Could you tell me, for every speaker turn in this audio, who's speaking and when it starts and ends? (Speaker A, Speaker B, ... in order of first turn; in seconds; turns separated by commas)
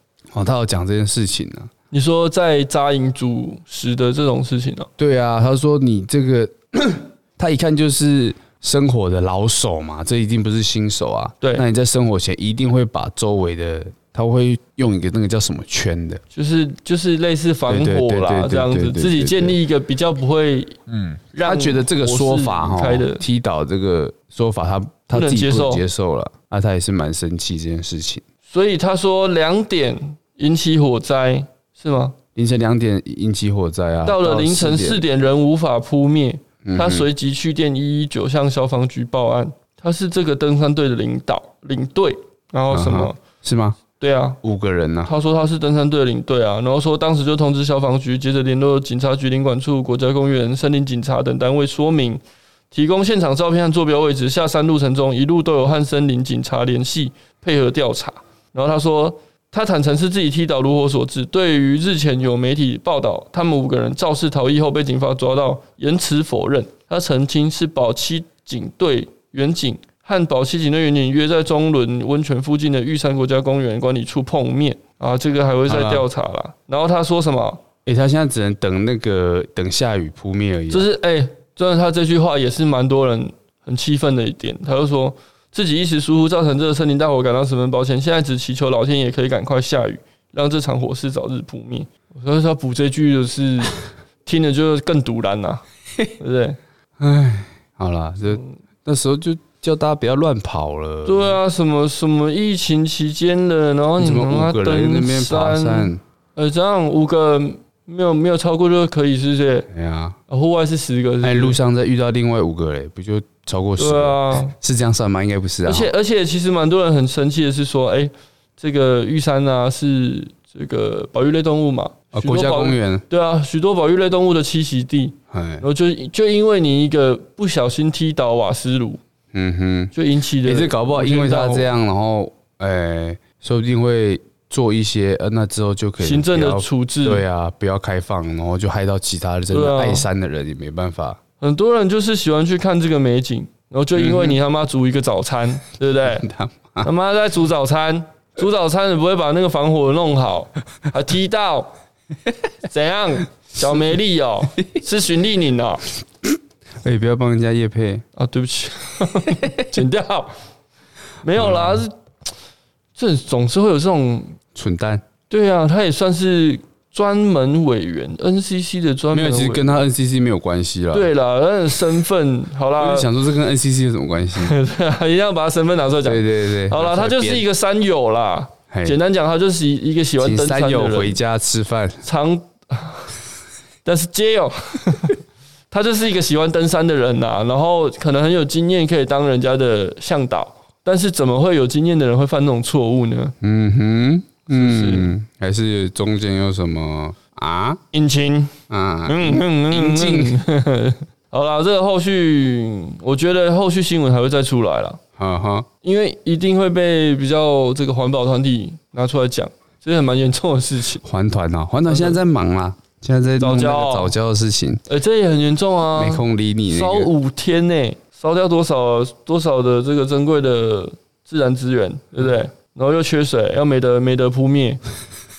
Speaker A: 0.3-1.7, Speaker B: 1.9-4.9, Speaker A: 5.0-16.2, Speaker B: 16.3-23.2, Speaker A: 17.7-19.6, Speaker A: 21.4-28.2, Speaker B: 25.1-25.8, Speaker B: 28.5-32.2, Speaker A: 32.4-35.0, Speaker B: 34.0-43.2, Speaker A: 36.6-37.1, Speaker A: 42.7-43.8, Speaker B: 44.0-44.4, Speaker A: 44.4-45.1, Speaker B: 45.0-77.6, Speaker A: 75.7-76.1, Speaker A: 77.8-80.9, Speaker B: 80.7-95.6, Speaker B: 96.2-96.6, Speaker A: 97.0-101.4, Speaker B: 98.3-98.5, Speaker B: 101.0-109.7, Speaker A: 104.0-106.0, Speaker A: 109.7-110.2, Speaker B: 110.3-111.6, Speaker A: 111.2-115.9, Speaker B: 113.8-114.5, Speaker B: 115.6-129.0, Speaker A: 122.1-123.0, Speaker A: 125.3-125.6, Speaker A: 129.3-129.9, Speaker B: 129.9-131.7, Speaker A: 130.4-141.2, Speaker B: 136.0-137.2, Speaker B: 139.5-140.1, Speaker B: 141.4-146.2, Speaker A: 144.0-144.3, Speaker A: 146.1-146.9, Speaker B: 146.8-151.7, Speaker B: 152.6-155.8, Speaker A: 156.8-158.0, Speaker B: 158.2-160.3, Speaker B: 161.2-161.9, Speaker A: 161.3-161.8, Speaker B: 162.9-164.3, Speaker A: 164.5-165.0, Speaker B: 165.3-169.8, Speaker A: 169.1-171.1, Speaker B: 170.9-173.1, Speaker A: 172.8-174.6, Speaker B: 174.4-181.2, Speaker A: 176.0-177.4, Speaker A: 178.7-179.0, Speaker A: 180.2-182.0, Speaker B: 182.0-183.1, Speaker B: 183.8-185.2, Speaker B: 185.7-193.3, Speaker A: 193.4-197.8, Speaker B: 194.5-195.1, Speaker B: 197.9-198.5, Speaker A: 198.7-200.4, Speaker B: 199.1-205.0, Speaker A: 205.2-205.7, Speaker B: 205.8-211.0, Speaker A: 211.0-214.8, Speaker B: 211.9-212.2, Speaker B: 213.4-214.1, Speaker B: 214.9-224.8, Speaker A: 215.9-217.1